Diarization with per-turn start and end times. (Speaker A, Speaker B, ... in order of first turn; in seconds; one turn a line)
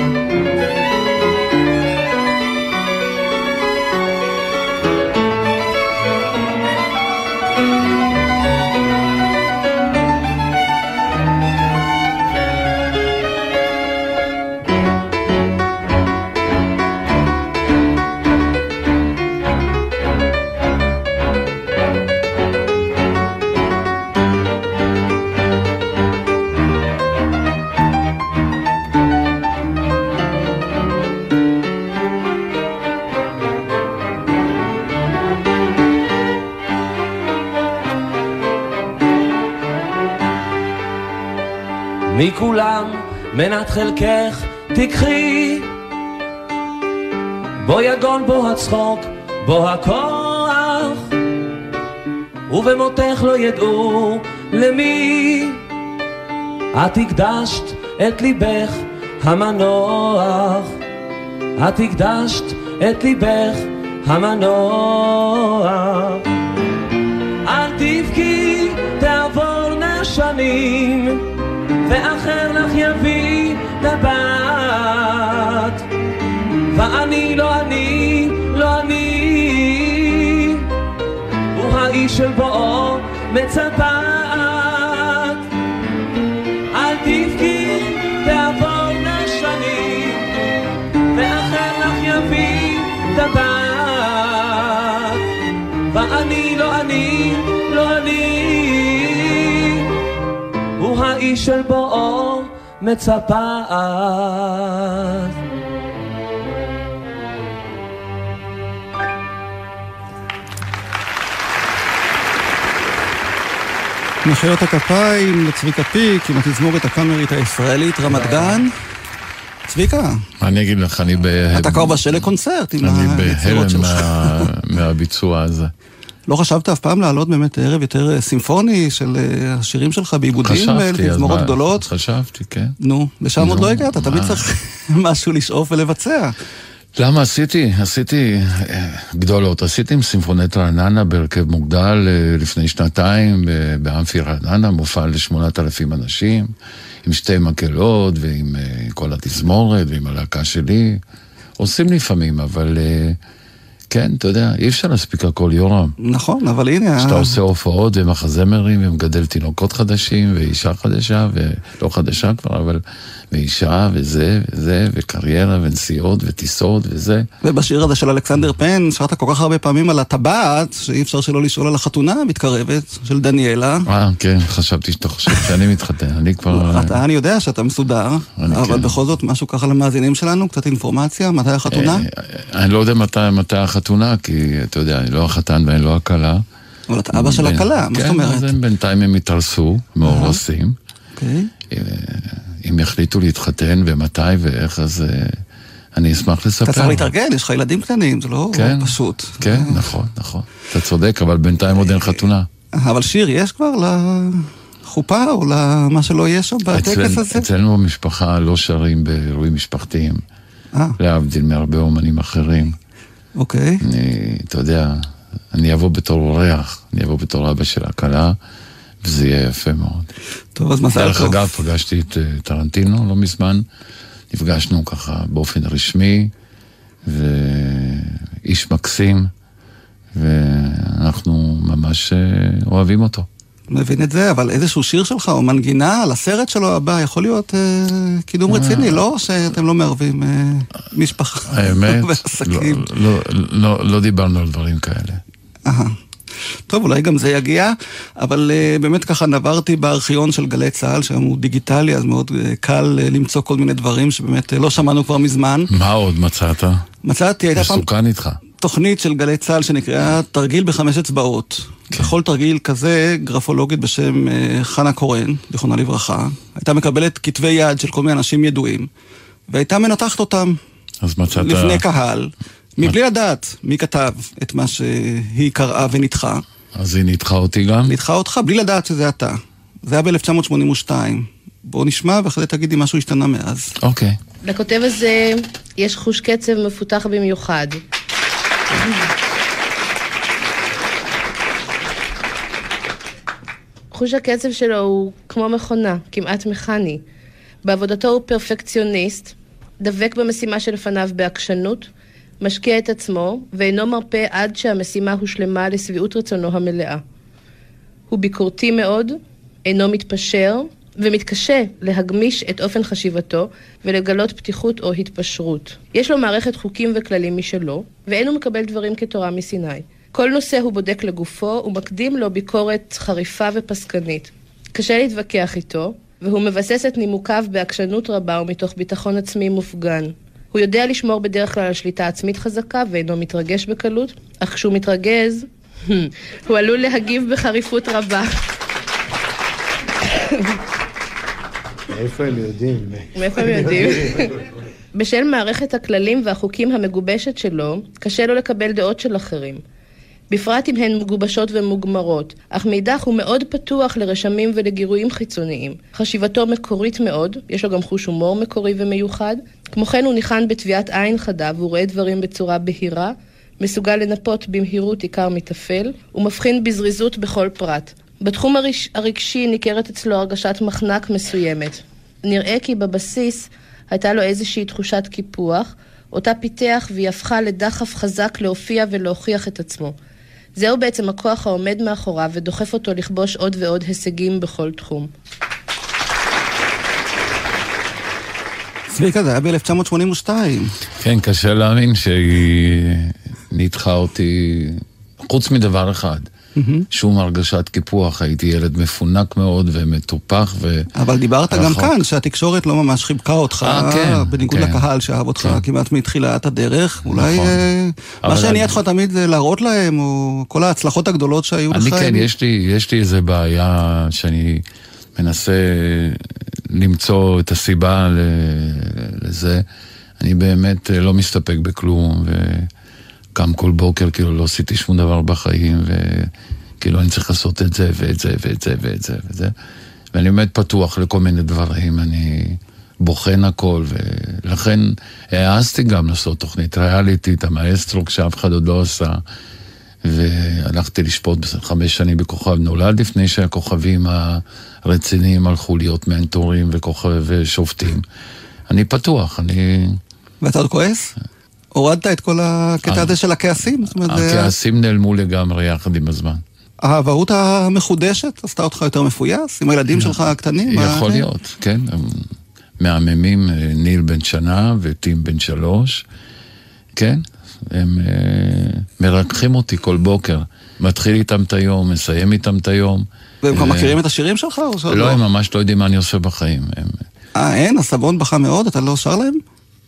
Speaker A: 42.1-45.7
Speaker A: 47.6-51.1
Speaker A: 52.5-55.6
Speaker A: 56.7-60.8
Speaker A: 61.6-66.2
Speaker A: 67.5-71.2
Speaker A: 71.9-75.8
Speaker A: 76.7-80.7
Speaker A: 81.5-85.5
Speaker A: 86.7-90.3
Speaker A: 91.1-95.2
Speaker A: 95.9-99.9
Speaker A: 100.8-105.3
Speaker B: 114.2-118.7
Speaker B: 119.7-120.2
Speaker C: 120.4-122.3
Speaker B: 121.5-124.5
Speaker C: 122.8-125.7
Speaker B: 126.3-131.8
Speaker C: 130.4-132.8
Speaker B: 132.8-136.3
Speaker C: 133.4-134.4
Speaker C: 136.9-146.5
Speaker C: 147.0-151.0
Speaker C: 151.6-153.2
Speaker C: 153.9-156.0
Speaker B: 156.0-157.3
Speaker C: 157.0-167.3
Speaker B: 167.4-173.9
Speaker C: 173.9-177.0
Speaker B: 176.5-182.1
Speaker C: 178.4-179.0
Speaker C: 181.7-186.4
Speaker B: 186.9-188.5
Speaker C: 187.1-190.8
Speaker B: 190.1-190.4
Speaker B: 191.2-191.5
Speaker C: 191.7-195.4
Speaker C: 195.9-197.1
Speaker B: 196.7-199.8
Speaker C: 198.5-202.5
Speaker B: 202.8-207.5
Speaker C: 206.7-210.2
Speaker C: 211.0-212.8
Speaker B: 213.4-213.8
Speaker C: 213.8-218.4
Speaker C: 219.0-220.1
Speaker B: 220.6-221.4
Speaker C: 220.9-223.7
Speaker C: 224.3-226.3
Speaker C: 227.1-229.3
Speaker C: 230.2-233.3
Speaker B: 233.7-242.9
Speaker C: 238.5-239.0
Speaker C: 241.5-245.2
Speaker B: 245.7-245.9
Speaker B: 246.7-255.7
Speaker C: 255.7-256.9
Speaker B: 257.1-257.9
Speaker C: 257.5-258.4
Speaker B: 258.6-268.9
Speaker B: 269.5-270.6
Speaker C: 271.0-271.9
Speaker B: 271.3-276.4
Speaker C: 276.8-278.0
Speaker B: 277.9-283.7
Speaker C: 283.8-284.2
Speaker D: 284.4-287.8
Speaker D: 293.9-297.0
Speaker D: 297.6-301.9
Speaker D: 302.4-307.0
Speaker D: 308.1-338.3
Speaker E: 341.9-344.2
Speaker D: 343.1-344.3
Speaker D: 344.9-349.6
Speaker D: 350.3-379.9
Speaker D: 380.6-385.1
Speaker B: 388.9-390.7
Speaker C: 391.0-396.3
Speaker B: 396.6-396.9
Speaker C: 396.9-400.9
Speaker B: 401.0-412.3
Speaker C: 401.5-402.0
Speaker C: 403.6-404.8
Speaker C: 407.1-407.6
Speaker C: 408.2-408.8
Speaker C: 411.7-414.6
Speaker C: 415.2-419.6
Speaker C: 420.2-422.7
Speaker C: 423.4-429.5
Speaker C: 430.1-439.2
Speaker C: 440.0-448.1
Speaker C: 448.7-450.0
Speaker B: 450.4-451.1
Speaker B: 451.8-454.5
Speaker C: 452.9-453.1
Speaker C: 453.8-456.4
Speaker B: 456.8-461.3
Speaker C: 460.7-462.3
Speaker C: 462.8-466.1
Speaker C: 466.9-474.0
Speaker B: 473.4-475.2
Speaker C: 474.9-477.1
Speaker B: 477.4-479.4